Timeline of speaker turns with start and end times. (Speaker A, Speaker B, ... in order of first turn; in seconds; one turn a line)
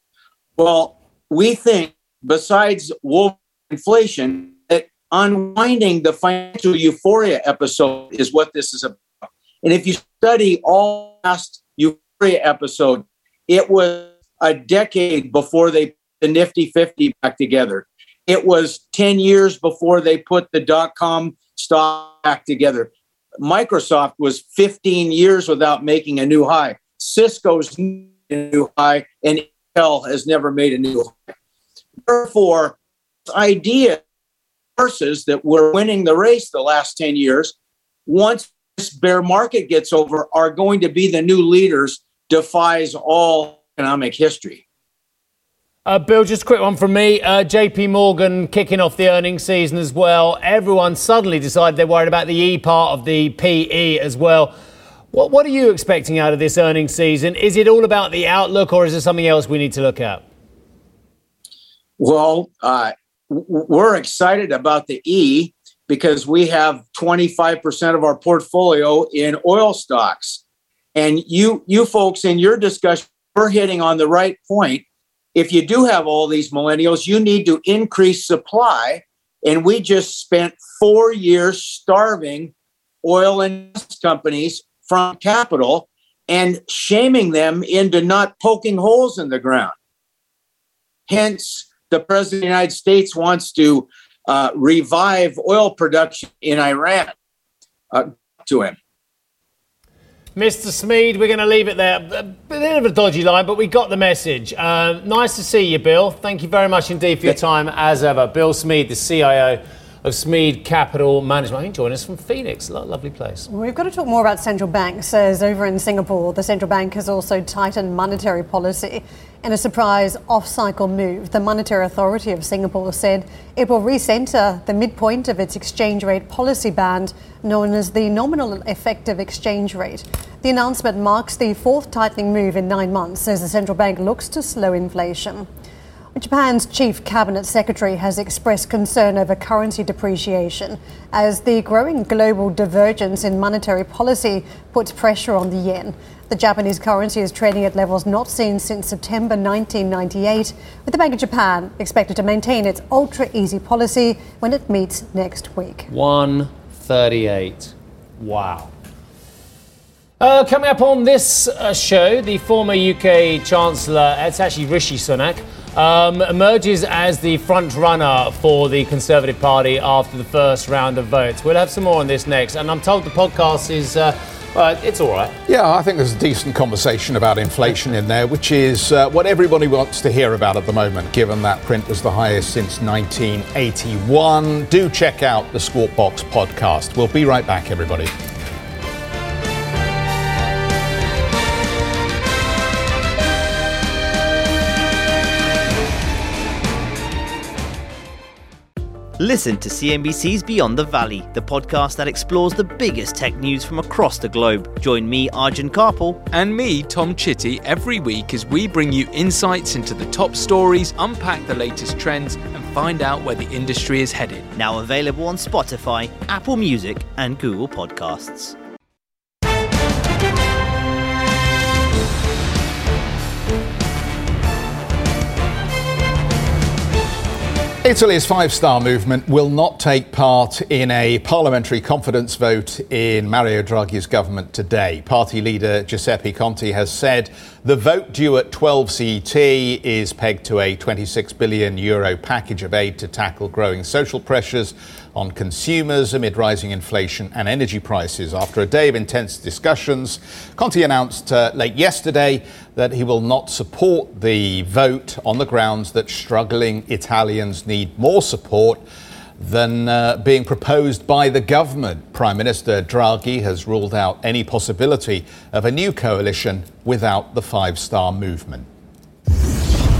Speaker A: 0.6-31.2
Speaker A: 32.0-32.8
Speaker A: 33.3-34.0
Speaker A: 34.8-37.5
Speaker A: 38.1-44.6
Speaker B: 45.9-54.5
Speaker B: 55.1-60.2
Speaker A: 62.0-70.4
Speaker A: 70.9-74.8
Speaker A: 75.3-82.5
Speaker A: 83.0-89.7
Speaker A: 91.1-97.1
Speaker A: 97.9-98.8
Speaker B: 100.3-113.5
Speaker C: 113.5-135.5
Speaker C: 136.1-155.9
Speaker B: 155.9-158.7
Speaker B: 160.2-175.3
Speaker D: 175.5-188.1
Speaker E: 199.2-206.2
Speaker F: 206.3-214.5
Speaker E: 214.5-218.6
Speaker D: 227.8-258.8
Speaker D: 259.4-268.7